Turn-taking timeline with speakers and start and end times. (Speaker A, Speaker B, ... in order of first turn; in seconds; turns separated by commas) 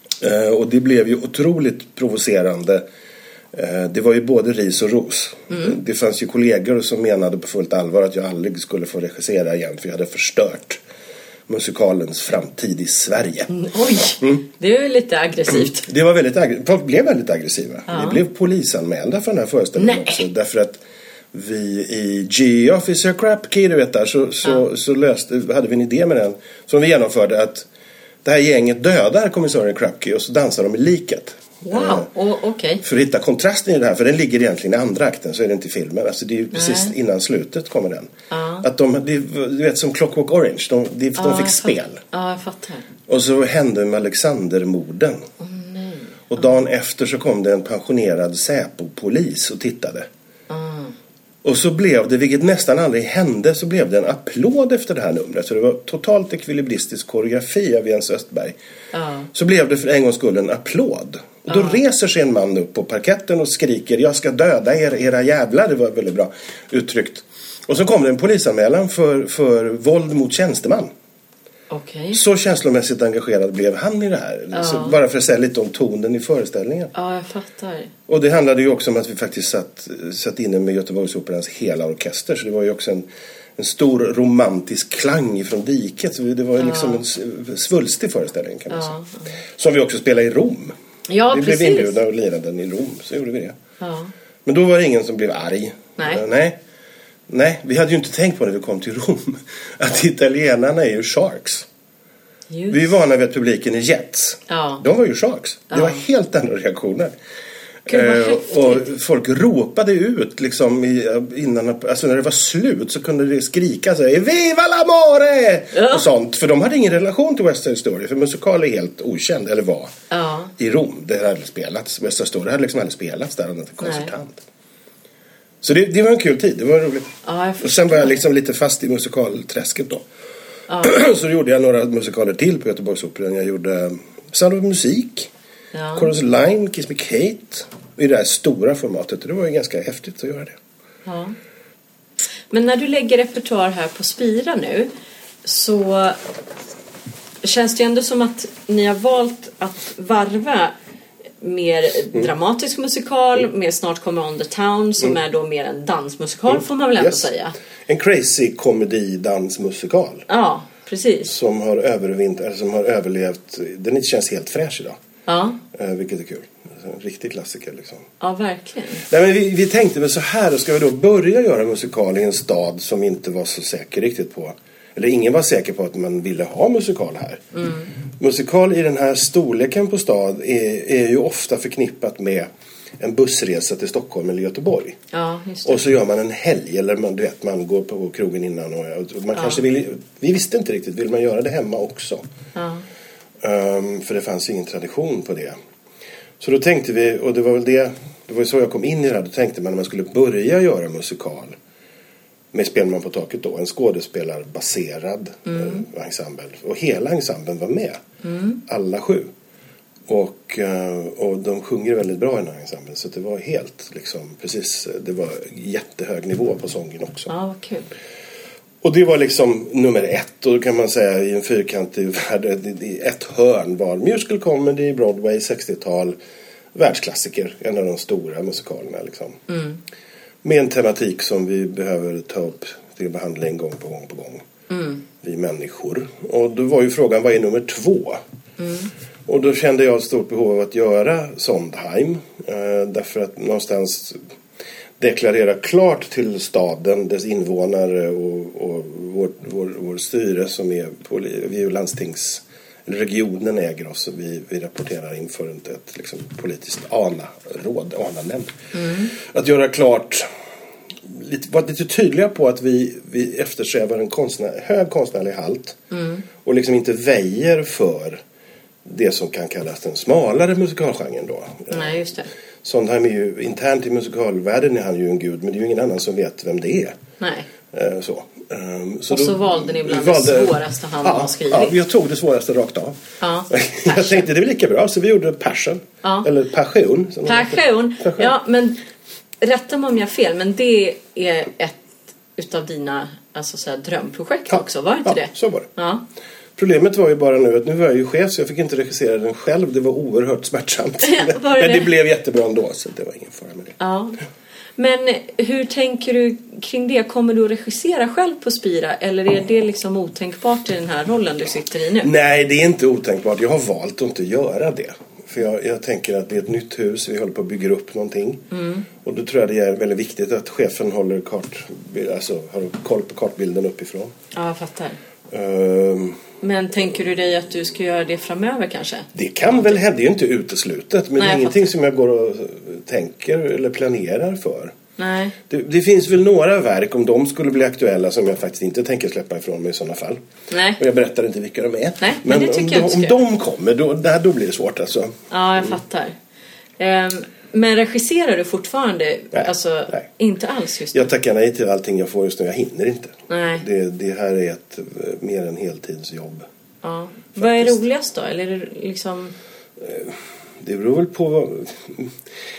Speaker A: 0.2-2.8, Speaker A: 3.5-10.8, Speaker B: 5.5-5.8, Speaker A: 11.5-13.5, Speaker B: 13.5-15.9, Speaker A: 15.8-20.8, Speaker B: 17.9-18.2, Speaker B: 19.8-20.2, Speaker A: 21.3-27.7, Speaker A: 28.2-32.1, Speaker B: 31.6-32.8, Speaker A: 32.8-38.1, Speaker B: 36.5-36.9, Speaker B: 38.3-38.6, Speaker A: 38.6-42.0, Speaker B: 41.2-42.9, Speaker A: 43.1-45.2, Speaker B: 45.4-46.5, Speaker A: 46.3-50.1, Speaker B: 50.5-51.0, Speaker A: 51.4-58.6, Speaker B: 58.9-59.3, Speaker A: 59.3-70.9, Speaker B: 61.5-61.8, Speaker B: 71.7-72.2, Speaker A: 72.1-76.9, Speaker B: 74.5-75.0, Speaker B: 76.9-77.9, Speaker A: 78.1-83.1, Speaker A: 83.6-89.0, Speaker B: 86.6-87.0, Speaker B: 88.7-89.3, Speaker A: 89.6-90.7, Speaker B: 91.1-92.0, Speaker A: 91.3-93.6, Speaker B: 93.8-94.1, Speaker A: 94.5-96.6, Speaker A: 97.3-101.7, Speaker B: 102.5-102.9, Speaker A: 102.7-107.1, Speaker B: 104.5-104.8, Speaker B: 105.7-106.0, Speaker A: 107.9-119.9, Speaker B: 107.9-108.9, Speaker B: 115.7-116.0, Speaker B: 120.1-120.5, Speaker A: 120.6-124.4, Speaker B: 123.8-124.1, Speaker A: 125.6-130.1, Speaker B: 127.2-128.2, Speaker B: 130.7-130.9, Speaker A: 130.8-135.3, Speaker B: 135.7-136.1, Speaker A: 135.9-140.6, Speaker B: 141.1-141.3, Speaker B: 142.5-144.9, Speaker B: 145.4-146.2, Speaker B: 147.4-150.7, Speaker B: 151.4-157.6, Speaker A: 156.6-157.3, Speaker A: 157.9-160.3, Speaker B: 160.3-161.3, Speaker A: 161.2-165.0, Speaker B: 165.3-165.6, Speaker A: 165.7-168.1, Speaker B: 168.2-169.0, Speaker A: 169.1-177.4, Speaker B: 177.6-177.9, Speaker A: 178.2-182.5, Speaker A: 183.0-185.0, Speaker B: 185.1-185.8, Speaker A: 185.7-192.2, Speaker B: 189.3-189.6, Speaker B: 192.6-192.8, Speaker A: 193.4-195.6, Speaker A: 196.4-201.6, Speaker A: 202.5-208.0, Speaker B: 205.5-205.8, Speaker B: 208.2-208.6, Speaker A: 208.7-209.3, Speaker A: 210.1-217.3, Speaker B: 217.3-217.9, Speaker A: 218.8-226.2, Speaker A: 226.8-229.4, Speaker B: 229.5-229.8, Speaker A: 230.4-234.4, Speaker B: 234.7-235.0, Speaker A: 235.2-238.2, Speaker B: 238.6-238.9, Speaker A: 239.3-244.2, Speaker A: 245.0-260.3, Speaker B: 258.7-259.1, Speaker A: 261.1-265.8, Speaker B: 265.9-266.2, Speaker A: 266.4-268.2, Speaker A: 268.9-272.1, Speaker B: 271.7-272.3, Speaker A: 272.6-277.0, Speaker B: 277.2-277.5, Speaker A: 277.7-283.0, Speaker B: 279.1-281.8, Speaker B: 283.2-284.3, Speaker A: 283.5-288.3, Speaker B: 287.3-288.8, Speaker B: 289.4-291.8, Speaker B: 292.4-296.0, Speaker A: 294.5-295.7, Speaker A: 296.6-303.8, Speaker B: 301.0-301.9, Speaker B: 303.8-304.2, Speaker B: 304.8-312.1, Speaker A: 312.0-318.4, Speaker B: 318.5-318.9, Speaker A: 319.0-324.1, Speaker B: 324.3-325.0, Speaker A: 325.3-326.2, Speaker B: 326.4-329.8, Speaker A: 329.1-334.7, Speaker B: 331.2-331.6, Speaker B: 335.0-335.4, Speaker A: 335.5-340.2, Speaker B: 340.5-340.8, Speaker A: 340.8-345.8, Speaker B: 342.0-343.2, Speaker B: 345.3-346.1, Speaker B: 346.8-351.1, Speaker A: 349.4-350.0, Speaker A: 350.9-356.5, Speaker B: 353.3-353.6, Speaker B: 356.8-359.4, Speaker A: 357.4-357.8, Speaker A: 359.8-362.1